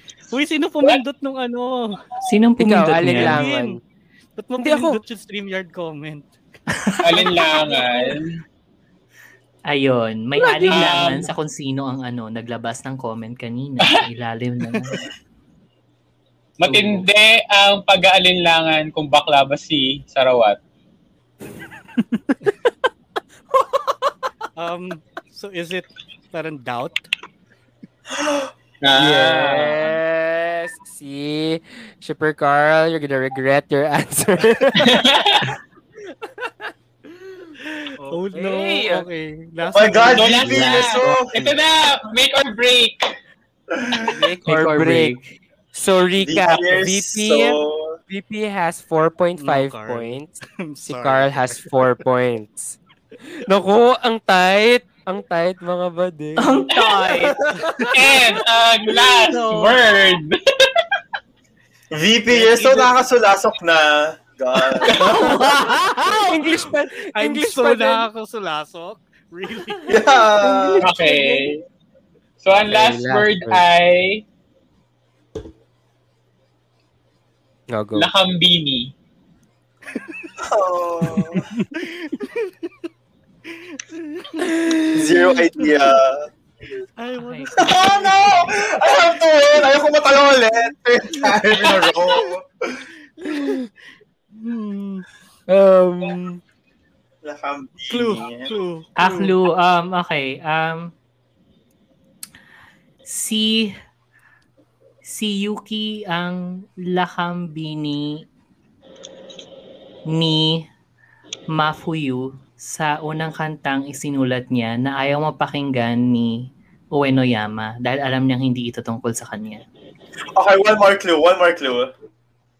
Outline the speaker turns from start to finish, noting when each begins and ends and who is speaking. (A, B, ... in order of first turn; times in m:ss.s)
0:00.3-0:01.9 A
0:02.2-0:03.4 B
0:02.6-0:03.8 C
0:03.1-0:03.8 A
0:04.4-0:06.3 A
0:04.6-0:05.0 C
0:06.8-0:07.3 B
0:07.0-0:08.4 D
0:09.7-0:15.0 B
0:10.7-0:11.3 D
0:16.6-0:20.6 D
0:16.6-0:17.0 B
0:24.6-0:27.1 A
0:28.1-0:28.5 E
0:28.8-0:29.9 D
0:28.9-0:35.2 C
0:34.8-0:35.5 D
0:37.8-0:40.6 A
0:38.3-0:39.0 C
0:39.7-0:41.6 E
0:40.1-0:43.1 D
0:40.5-0:41.2 C
0:43.7-0:44.2 E
0:44.1-0:45.1 C
0:44.5-0:45.3 B
0:45.7-0:47.6 C
0:46.2-0:48.0 E
0:48.1-0:52.8 C
0:49.4-0:51.9 A
0:53.4-0:56.7 C
0:56.4-0:57.3 B
0:57.3-0:57.9 C
0:57.9-1:00.4 D
0:59.3-0:59.8 A
1:01.9-1:05.0 E
1:02.3-1:03.0 A
1:04.8-1:08.1 C
1:04.9-1:06.2 B
1:07.1-1:10.0 A
1:09.9-1:10.9 E
1:10.4-1:11.4 C
1:10.8-1:11.6 D
1:12.4-1:14.2 D
1:12.7-1:13.6 C
1:17.7-1:18.1 C
1:17.9-1:18.9 D
1:19.9-1:20.3 A
1:20.4-1:21.5 E
1:21.6-1:22.5 A
1:23.7-1:24.8 A
1:24.9-1:26.3 E
1:27.0-1:28.5 A
1:27.2-1:27.8 B
1:27.6-1:32.8 E
1:31.2-1:32.0 A
1:33.2-1:33.6 A
1:34.3-1:35.0 A
1:35.5-1:36.4 C
1:37.2-1:38.5 E
1:37.9-1:39.4 A
1:39.0-1:40.9 B
1:43.0-1:43.7 B
1:45.0-1:48.2 B
1:50.1-1:50.6 B
1:51.5-1:56.4 B
1:56.9-1:59.6 B
2:00.4-2:01.9 E